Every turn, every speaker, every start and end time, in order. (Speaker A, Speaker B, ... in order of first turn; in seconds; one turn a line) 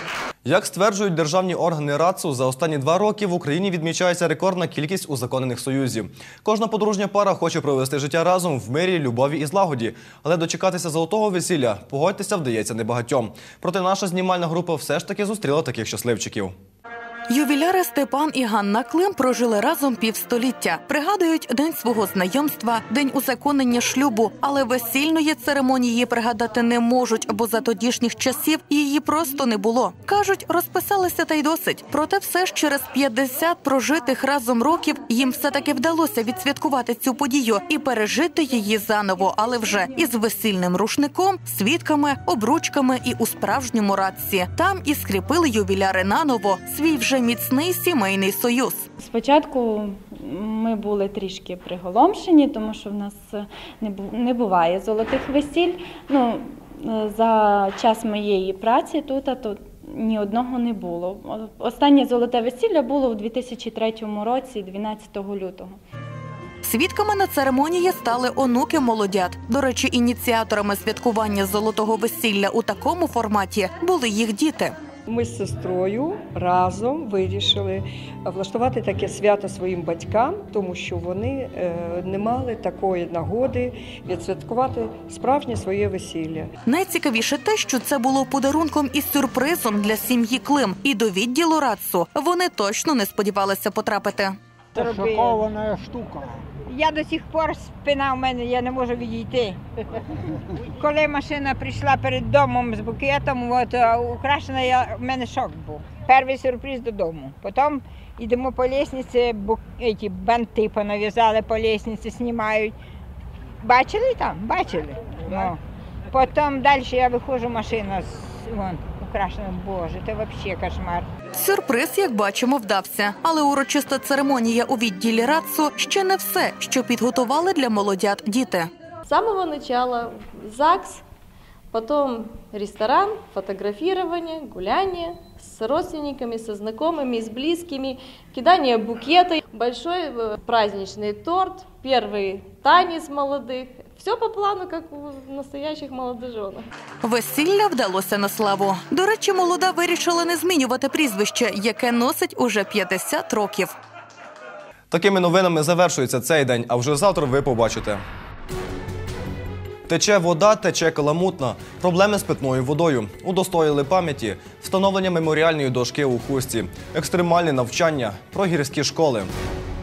Speaker A: 0.5-16.5
Speaker B: 17.3-48.9
Speaker C: 49.0-65.8
Speaker B: 66.7-74.8
Speaker D: 75.1-86.5
Speaker B: 86.7-94.3
Speaker E: 94.8-95.5
Speaker E: 96.7-99.6
Speaker E: 100.8-112.8
Speaker E: 113.6-115.6
Speaker E: 116.1-121.1
Speaker B: 121.3-128.7
Speaker F: 129.1-131.0
Speaker F: 131.7-146.7
Speaker B: 147.0-153.7
Speaker A: 154.9-158.0
Speaker A: 159.9-169.3